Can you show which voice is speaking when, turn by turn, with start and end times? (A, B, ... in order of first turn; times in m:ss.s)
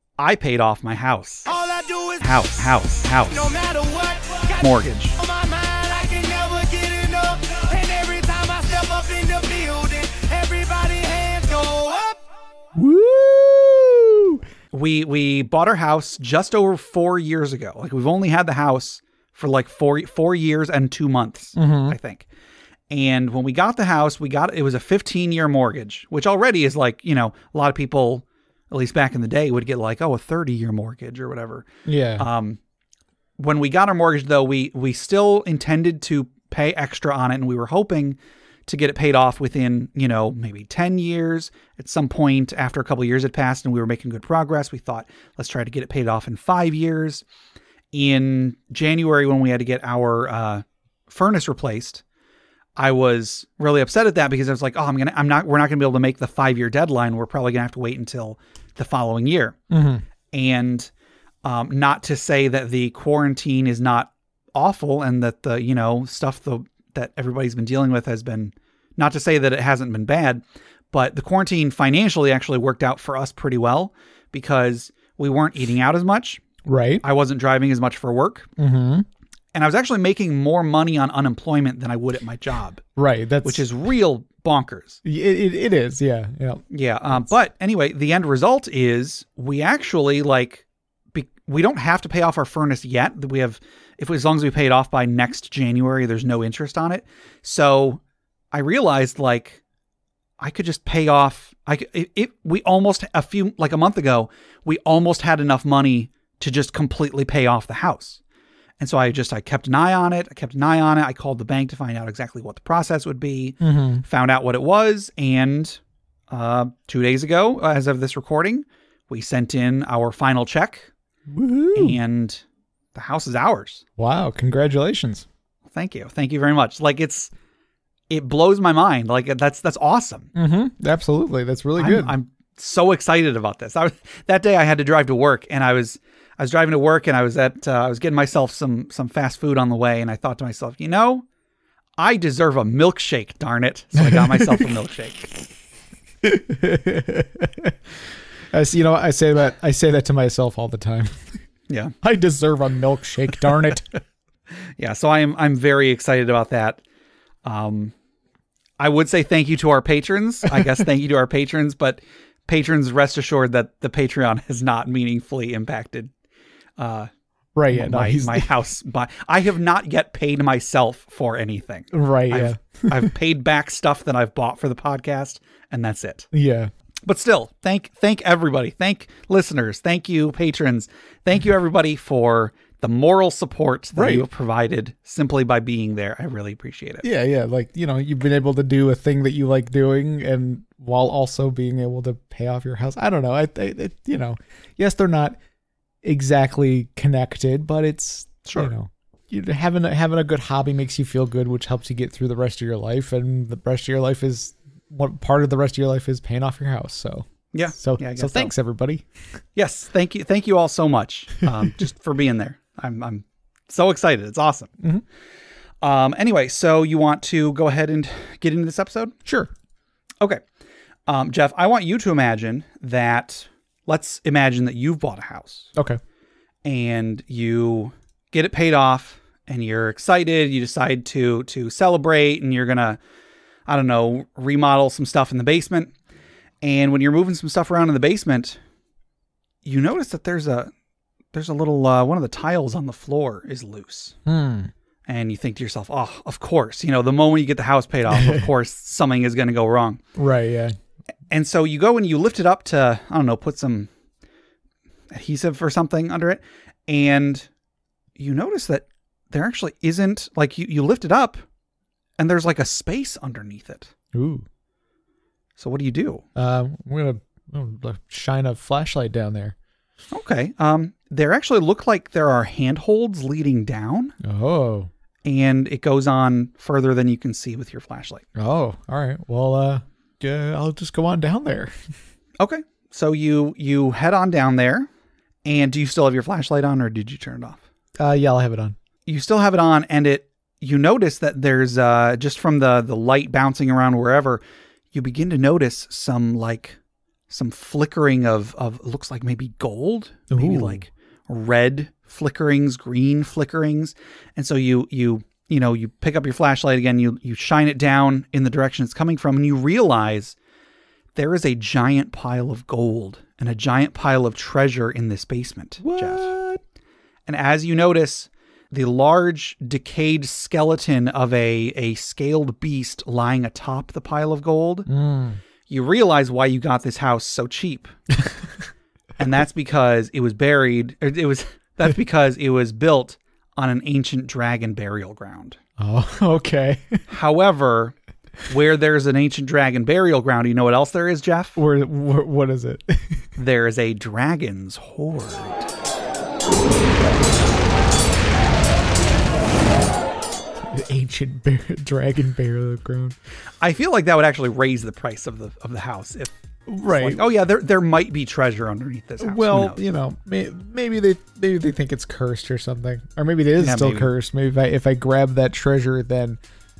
0:00.2-0:01.5 A
0:01.5-0:12.2 B
0:02.2-0:03.5 A
0:04.6-0:05.2 A
0:12.7-0:14.4 C
0:14.7-0:22.3 A
0:21.6-0:22.0 C
0:22.9-0:32.6 A
0:31.8-0:32.3 C
0:33.4-0:47.2 A
0:47.9-0:52.0 A
0:52.8-0:59.6 A
0:59.7-1:00.0 C
1:00.3-1:00.9 A
1:01.4-1:16.4 A
1:16.6-1:17.0 C
1:17.0-1:18.5 A
1:18.6-1:19.0 C
1:19.5-1:22.8 A
1:23.0-1:23.6 C
1:23.4-1:25.0 A
1:25.0-1:27.3 C
1:26.7-1:38.0 A
1:38.5-1:39.6 A
1:40.4-1:48.2 A
1:48.8-2:00.9 A
1:53.6-1:54.0 C
2:01.3-2:02.0 C
2:01.7-2:03.8 A
2:04.0-2:05.2 C
2:05.7-2:07.3 A
2:08.1-2:10.3 A
2:10.3-2:12.1 C
2:11.8-2:21.2 A
2:22.0-2:25.3 A
2:24.0-2:24.7 C
2:26.2-2:28.0 C
2:28.5-2:31.4 C
2:31.7-2:31.9 A
2:32.0-2:34.0 C
2:34.8-2:36.8 A
2:37.4-2:37.9 A
2:38.8-2:46.1 A
2:46.8-2:47.1 A
2:47.5-2:48.5 C
2:47.7-2:56.3 A
2:51.9-2:53.1 C
2:56.3-2:56.7 C
2:57.0-3:07.0 A
3:03.9-3:04.2 C
3:07.0-3:15.4 C
3:16.0-3:29.1 C
3:18.4-3:18.7 A
3:27.5-3:28.5 A
3:29.5-3:34.8 A
3:35.8-3:39.2 A
3:39.2-3:39.5 C
3:41.1-3:45.7 A
3:45.7-3:46.0 C
3:46.6-3:53.0 A
3:53.7-3:55.9 A
3:56.6-3:58.6 A
3:59.6-4:00.7 A
4:01.3-4:04.2 A
4:04.2-4:04.7 C
4:05.1-4:10.0 A
4:08.1-4:08.5 C
4:10.2-4:10.8 C
4:11.3-4:13.9 A
4:15.1-4:17.5 A
4:18.2-4:21.4 A
4:22.2-4:23.9 A
4:24.1-4:24.4 C
4:25.6-4:26.2 A
4:26.4-4:29.5 C
4:30.1-4:34.1 A
4:34.2-4:34.9 C
4:35.2-4:38.2 A
4:38.4-4:41.9 C
4:42.4-4:44.9 A
4:45.4-4:47.6 A
4:48.0-4:48.8 C
4:49.1-4:56.8 A
4:57.3-5:10.4 A
5:00.3-5:00.8 C
5:11.1-5:16.3 A
5:15.8-5:16.6 C
5:17.3-5:24.9 A
5:24.9-5:25.4 C
5:25.7-5:27.9 A
5:29.2-5:35.6 A
5:35.8-5:37.0 C
5:37.1-5:37.9 A
5:38.4-5:41.6 A
5:41.6-5:43.3 C
5:43.4-5:45.7 A
5:50.6-5:53.2 C
5:53.6-5:56.3 A
5:56.7-5:57.2 C
5:56.9-5:59.8 A
5:59.2-6:06.4 C
6:03.6-6:04.1 A